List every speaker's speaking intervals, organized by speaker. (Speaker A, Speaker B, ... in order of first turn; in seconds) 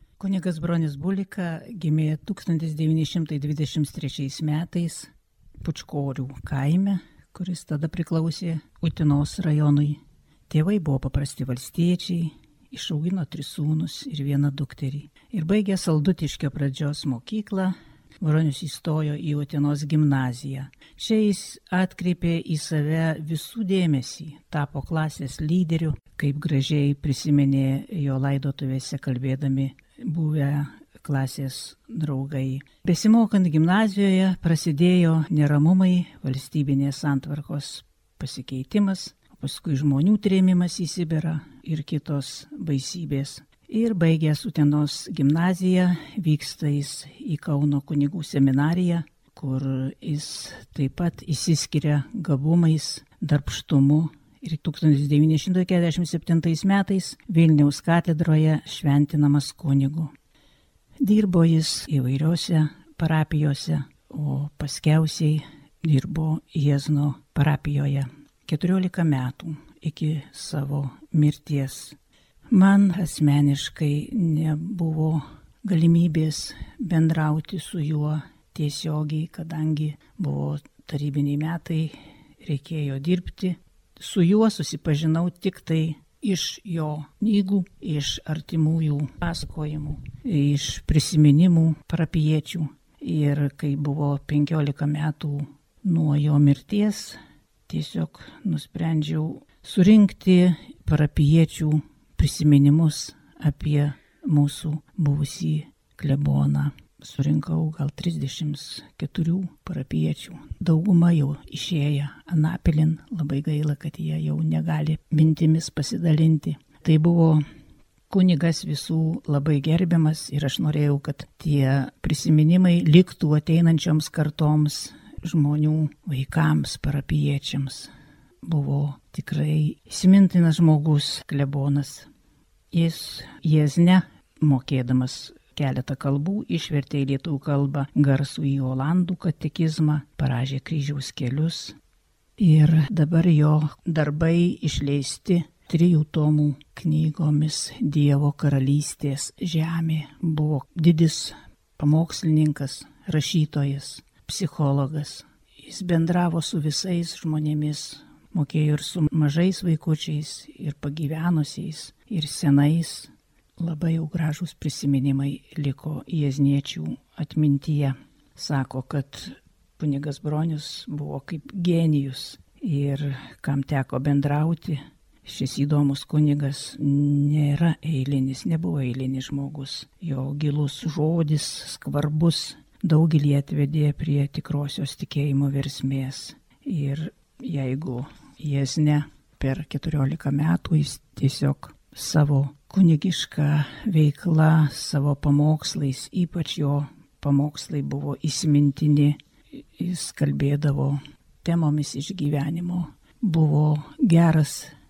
Speaker A: 0.2-5.1, 5.6-60.1, 61.0-72.0, 72.5-117.4, 118.1-127.9, 128.4-132.1, 132.7-141.8, 142.4-204.7